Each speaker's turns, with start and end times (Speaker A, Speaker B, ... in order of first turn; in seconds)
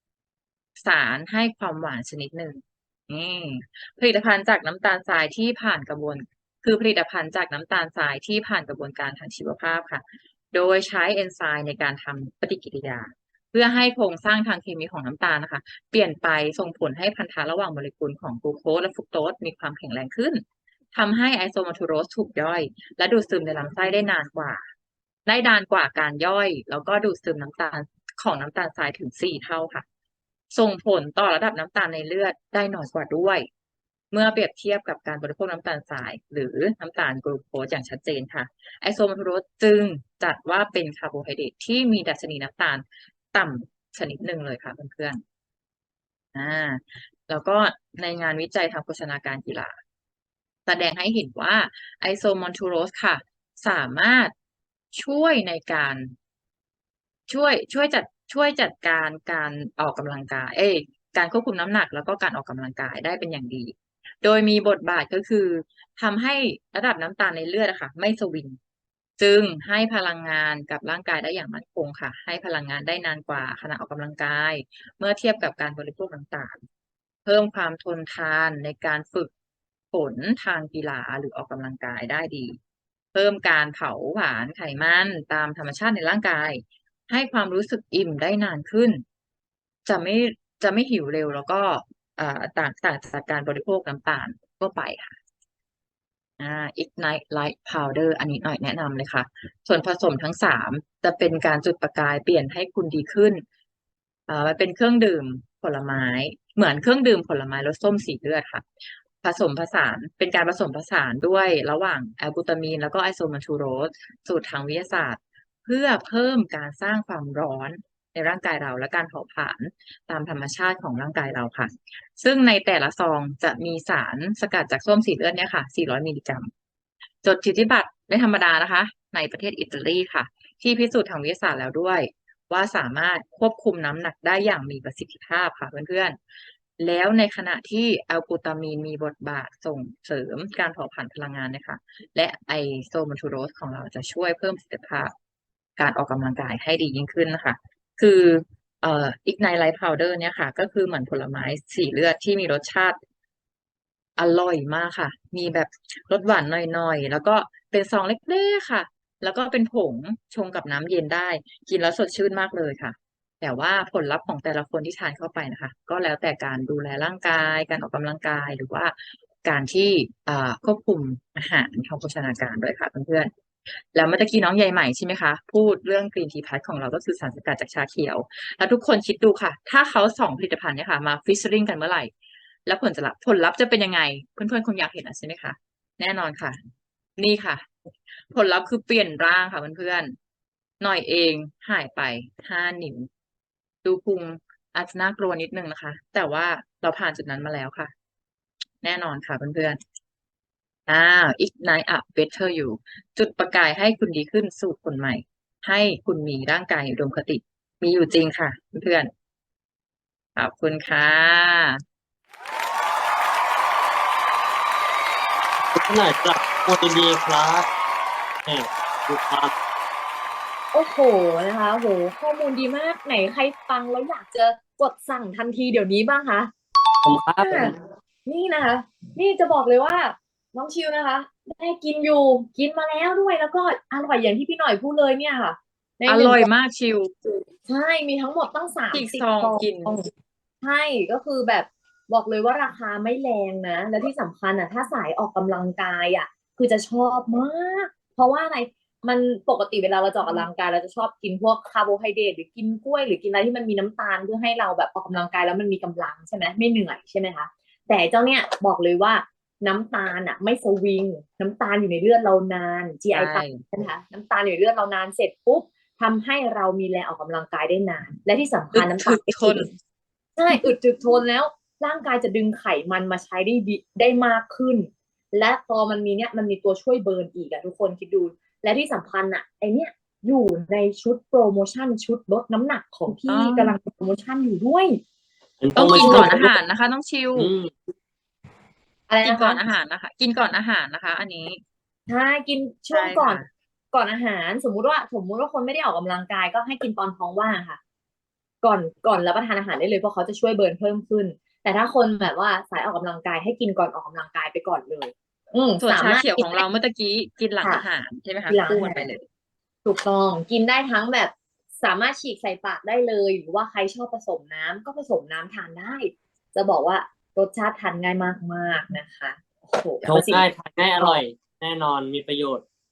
Speaker A: 0.8-24.6, 25.3-29.9, 30.5-33.5, 34.1-45.2, 46.3-49.8, 50.7-54.3, 54.9-56.1, 57.3-68.6, 69.2-76.6, 77.2-79.3, 79.9-82.6, 83.1-89.0, 89.9-95.2, 96.4-103.4, 104.3-108.7, 109.2-126.5, 127.2-136.2, 136.8-145.1, 145.8-153.0, 154.2-173.3, 173.9-182.1, 182.7-186.6, 187.2-187.7, 188.3-190.2, 190.8-193.1, 193.8-197.9, 198.8-199.8, 200.9-209.1, 210.4-211.8, 236.1-237.4, 238.9-240.0, 263.1-263.6, 268.7-269.7, 283.2-283.7, 285.8-287.5, 289.2-291.6, 292.9-293.5, 305.8-309.2
Speaker B: 215.8-217.7, 218.5-219.5, 227.0-227.8, 285.6-286.5, 287.4-287.8, 320.0-322.6
Speaker C: 220.7-226.5, 227.4-227.7, 228.2-236.5, 237.7-240.1, 240.6-269.7, 270.4-285.0, 285.8-286.5, 289.1-289.6, 292.1-297.8, 298.6-306.6, 308.5-309.1, 309.8-320.5